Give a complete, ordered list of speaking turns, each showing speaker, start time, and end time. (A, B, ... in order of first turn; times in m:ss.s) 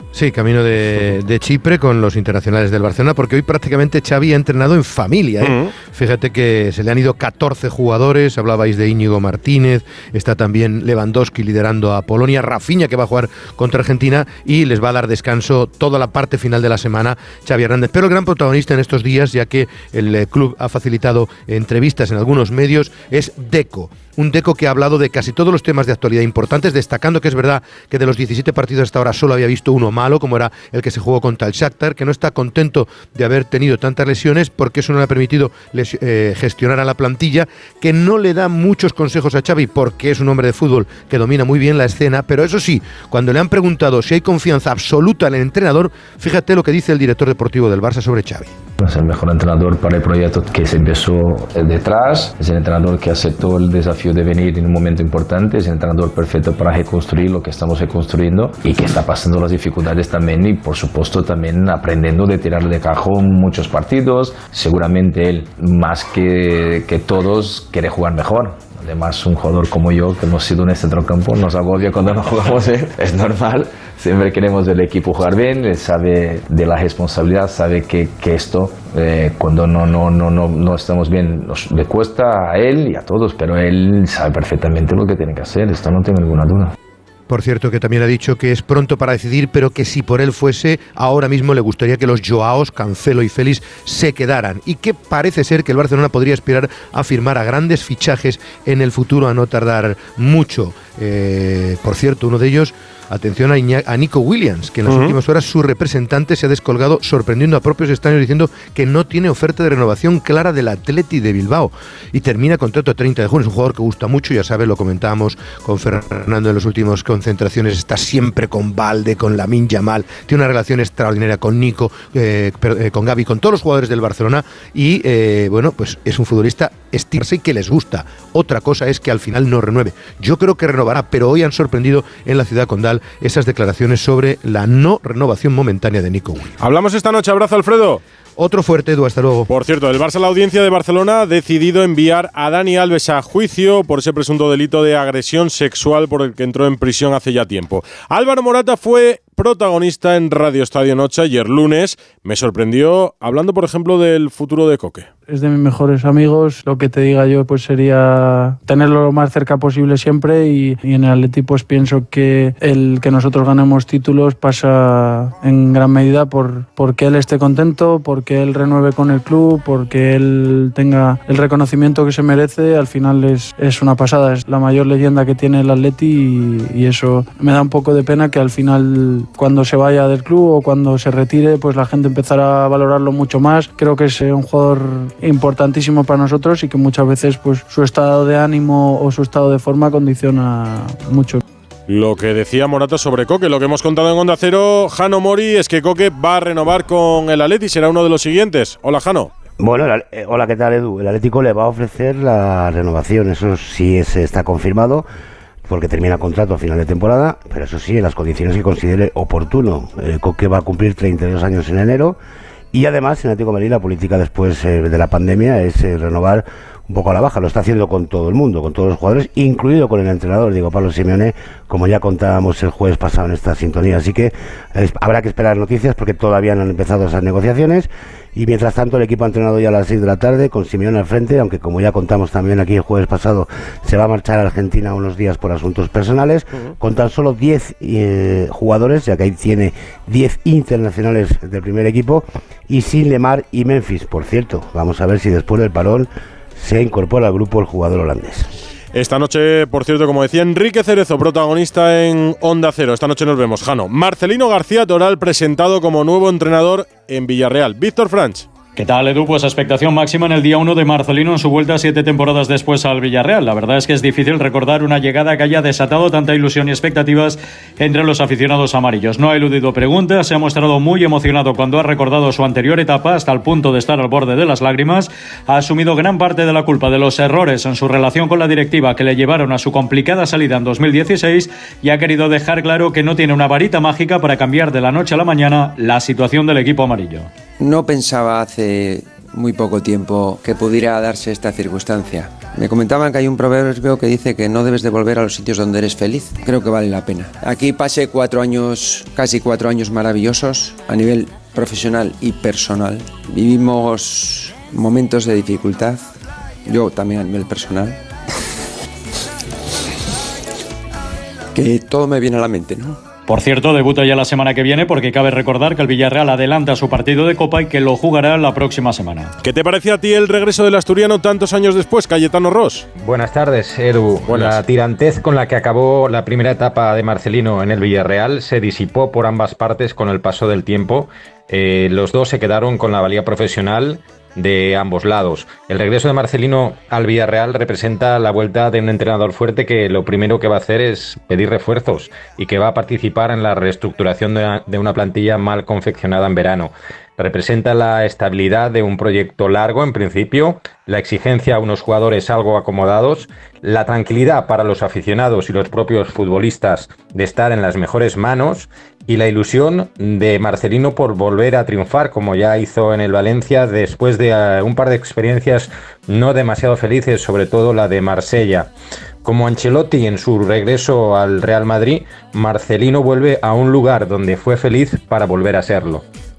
0:00.1-0:48.5 A
0:05.4-0:05.7 B
0:48.8-1:26.7 C
1:27.3-2:16.6 A
1:44.9-1:45.2 B
2:16.6-2:18.0 B
2:18.4-2:19.5 A
2:19.5-2:35.1 B
2:35.3-3:11.4 D
3:11.9-3:19.3 B
3:19.6-3:25.0 E
3:25.7-3:32.2 E
3:32.7-4:08.5 E
4:08.9-4:18.5 B
4:18.8-4:47.3 F
4:47.6-5:06.0 G
5:06.6-5:08.0 G
5:11.5-5:13.0 G
5:13.3-5:19.3 F
5:19.4-5:22.9 B
5:23.0-6:08.7 H
5:24.3-5:24.6 B
6:09.2-6:16.0 H